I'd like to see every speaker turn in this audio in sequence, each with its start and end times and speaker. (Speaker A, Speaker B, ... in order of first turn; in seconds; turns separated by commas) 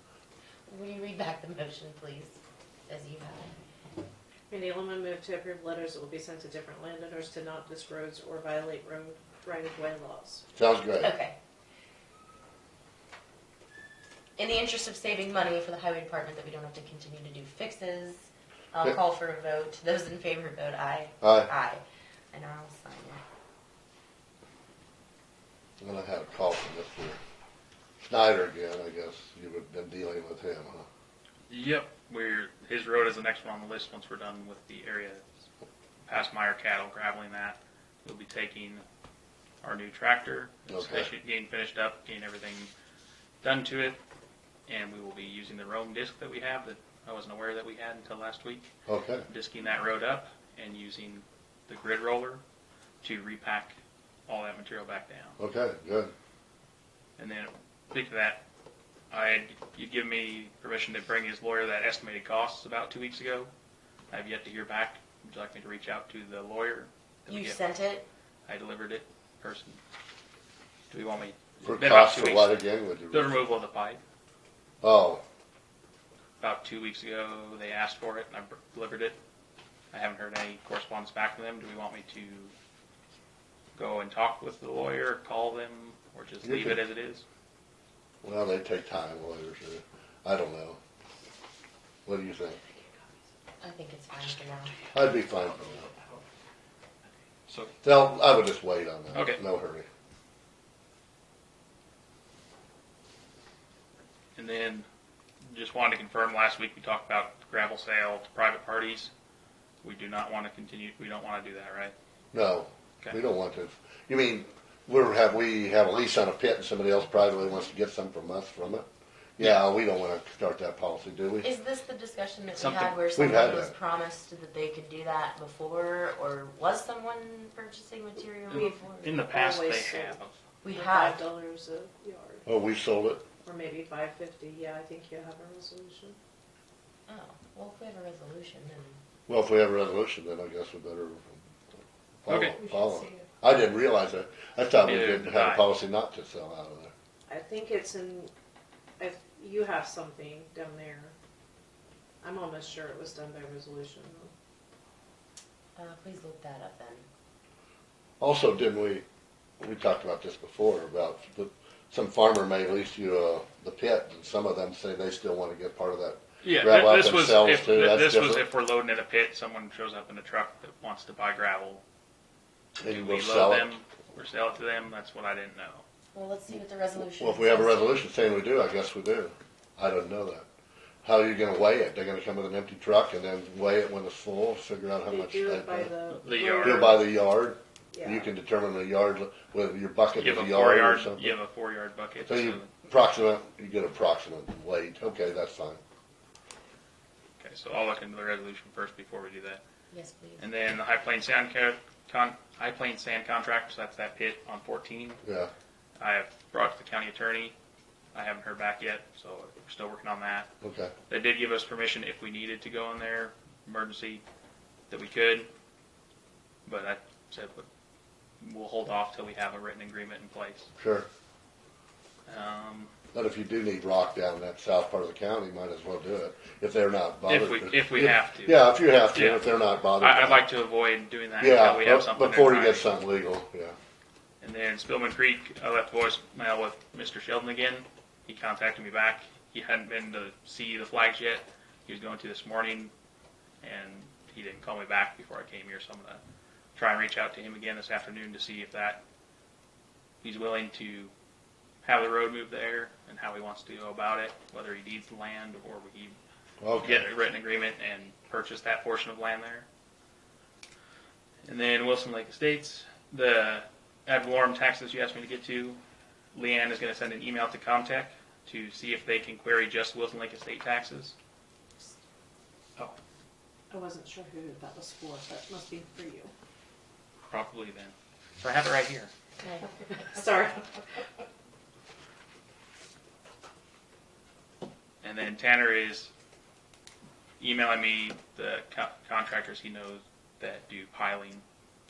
Speaker A: 0.7-2.4, Speaker A: 2.9-3.5, Speaker B: 4.5-10.4, Speaker C: 10.6-11.1, Speaker A: 10.9-11.4, Speaker A: 14.4-23.2, Speaker C: 21.2-21.5, Speaker C: 25.8-27.2, Speaker C: 28.1-30.9, Speaker D: 31.5-35.2, Speaker D: 36.1-38.8, Speaker D: 39.6-42.7, Speaker C: 40.7-41.1, Speaker D: 43.4-44.0, Speaker D: 44.7-48.7, Speaker C: 48.9-49.3, Speaker D: 49.3-52.4, Speaker D: 53.0-53.8, Speaker D: 54.3-55.4, Speaker C: 55.4-56.1, Speaker D: 57.2-58.4, Speaker D: 59.1-63.5, Speaker D: 64.1-67.6, Speaker A: 67.3-68.0, Speaker D: 68.5-69.8, Speaker D: 70.9-74.0, Speaker C: 71.6-73.4, Speaker C: 74.8-75.2, Speaker D: 76.4-79.2, Speaker D: 79.9-82.5, Speaker D: 83.8-87.2, Speaker C: 86.4-86.8, Speaker C: 88.2-90.8, Speaker C: 92.1-92.6, Speaker A: 93.6-94.7, Speaker C: 94.9-95.9, Speaker D: 97.5-97.7, Speaker C: 97.8-99.9, Speaker D: 99.1-99.4, Speaker D: 104.3-104.9, Speaker D: 105.4-109.1, Speaker D: 109.8-111.9, Speaker C: 112.3-121.5, Speaker A: 121.4-129.1, Speaker D: 122.6-123.0, Speaker C: 123.2-123.8, Speaker D: 128.5-130.3, Speaker B: 128.5-130.2, Speaker A: 130.6-131.2, Speaker B: 130.7-132.5, Speaker C: 132.5-133.2, Speaker B: 133.4-136.2, Speaker A: 137.1-139.0, Speaker C: 139.3-141.4, Speaker C: 142.2-146.9, Speaker D: 142.3-142.6, Speaker D: 144.8-145.7, Speaker B: 147.3-148.3, Speaker B: 149.0-151.1, Speaker B: 152.2-154.3, Speaker A: 155.8-157.1, Speaker C: 158.2-159.1, Speaker C: 159.6-168.4, Speaker D: 166.4-171.8, Speaker C: 172.8-173.7, Speaker D: 172.8-175.8, Speaker A: 176.1-177.9, Speaker C: 177.2-180.5, Speaker C: 181.0-185.9, Speaker B: 185.1-187.1, Speaker D: 186.1-187.0, Speaker C: 186.6-191.3, Speaker B: 187.9-188.3, Speaker D: 190.2-192.7, Speaker C: 192.3-195.8, Speaker D: 197.4-199.6, Speaker A: 199.9-200.5, Speaker D: 200.4-205.2, Speaker C: 205.2-205.5, Speaker D: 206.0-207.6, Speaker D: 208.1-210.5, Speaker C: 210.6-210.9, Speaker D: 211.1-214.2, Speaker D: 214.9-215.5, Speaker D: 216.7-217.7, Speaker D: 218.4-220.7, Speaker C: 220.8-221.1, Speaker D: 222.3-222.9, Speaker C: 223.1-230.4, Speaker D: 227.3-232.9, Speaker C: 231.4-233.8, Speaker D: 234.4-242.9, Speaker D: 243.6-246.2, Speaker D: 246.8-249.0, Speaker D: 250.2-251.1, Speaker D: 251.8-256.2, Speaker C: 256.6-257.0, Speaker D: 256.8-259.7, Speaker D: 261.4-265.8, Speaker D: 266.3-271.2, Speaker B: 273.7-276.3, Speaker D: 277.3-279.1, Speaker A: 279.4-279.7, Speaker B: 279.9-281.0, Speaker D: 285.0-286.1, Speaker D: 287.4-291.4